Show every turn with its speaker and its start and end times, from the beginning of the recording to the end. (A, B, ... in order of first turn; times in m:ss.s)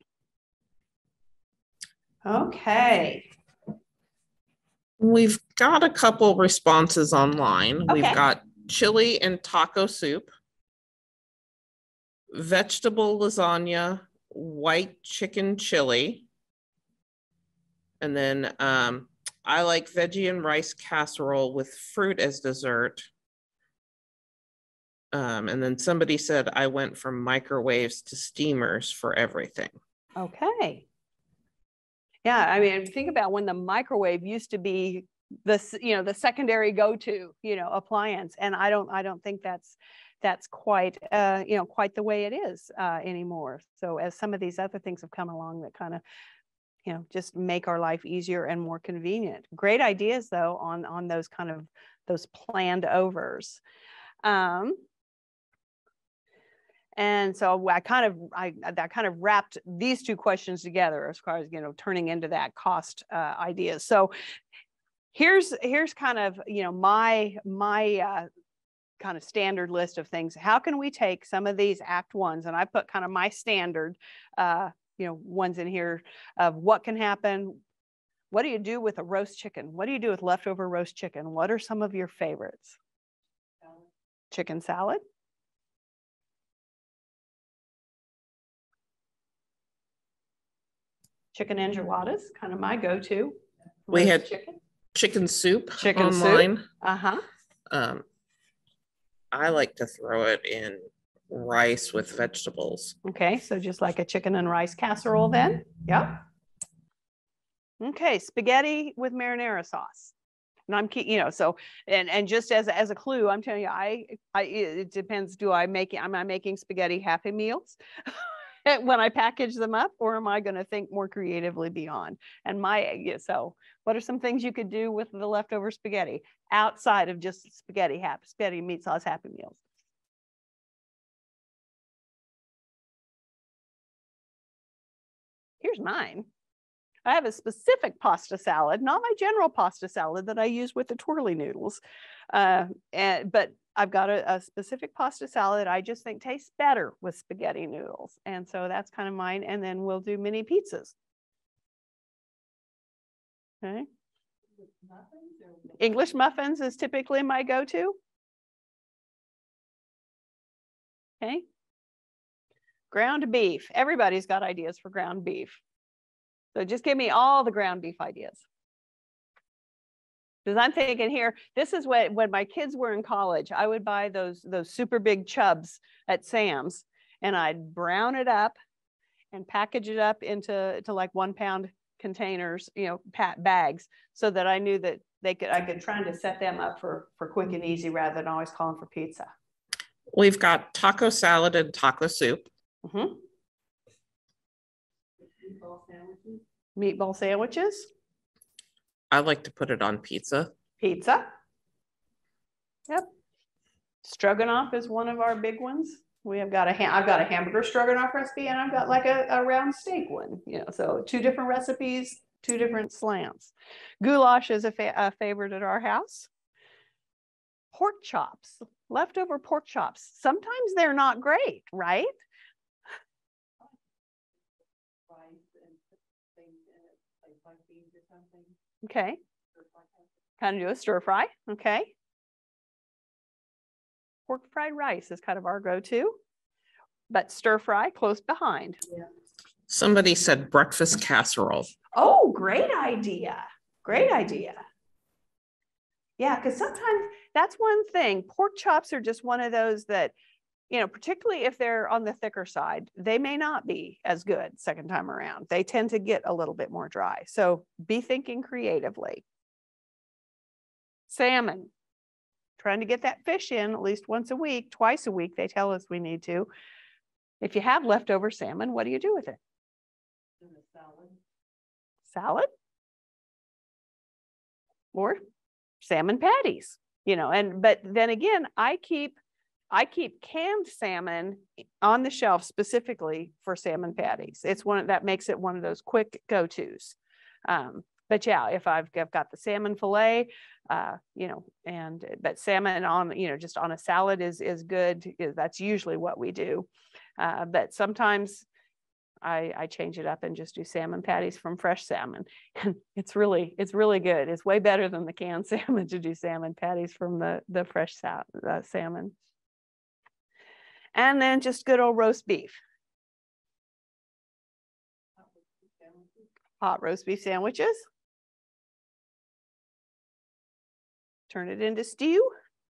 0:02.2-0:03.3 A
0:05.0-0:10.3 B
0:07.9-0:08.2 A
0:12.3-0:16.3 B
0:18.0-0:23.1 B
0:25.1-0:29.7 B
0:30.2-0:30.8 A
0:32.2-0:46.0 A
0:46.8-0:53.6 A
0:54.2-0:54.8 A
0:57.0-1:04.1 A
1:05.1-1:08.3 A
1:09.0-1:17.6 A
1:18.3-1:22.8 A
1:24.3-1:25.0 A
1:31.3-1:33.4 A
1:33.9-1:34.6 A
1:33.9-1:34.3 B
1:34.9-1:36.7 B
1:35.8-1:37.2 A
1:37.7-1:38.0 B
1:39.3-1:43.0 B
1:43.0-1:46.2 A
1:47.8-1:50.1 A
1:50.7-2:09.6 A
2:15.6-2:16.3 A
2:17.0-2:21.8 A
2:22.3-2:30.9 A
2:33.6-2:33.9 A
2:35.7-2:38.0 A
2:42.9-2:45.6 A
2:46.5-2:48.4 A
2:50.4-2:58.5 A
2:59.3-3:09.3 A
3:10.1-3:12.4 B
3:12.8-3:13.1 A
3:15.4-3:17.9 A
3:19.1-3:20.5 B
3:20.8-3:21.3 A
3:24.0-3:36.3 A
3:37.7-3:42.1 A
3:45.1-3:45.4 A
3:47.2-3:49.2 A
3:50.4-3:51.9 A
3:54.3-3:56.2 A
3:57.1-3:58.8 A
3:59.7-4:01.7 B
4:01.9-4:04.6 A
4:06.2-4:10.1 A
4:10.7-4:19.2 A
4:21.1-4:21.7 A
4:22.6-4:26.5 A
4:27.4-4:29.4 A
4:32.1-4:32.5 A
4:34.9-4:35.2 A
4:35.8-4:39.2 A
4:39.7-4:58.4 A
4:59.2-5:09.1 A
5:10.9-5:12.6 A
5:16.6-5:17.8 A
5:21.3-5:22.3 A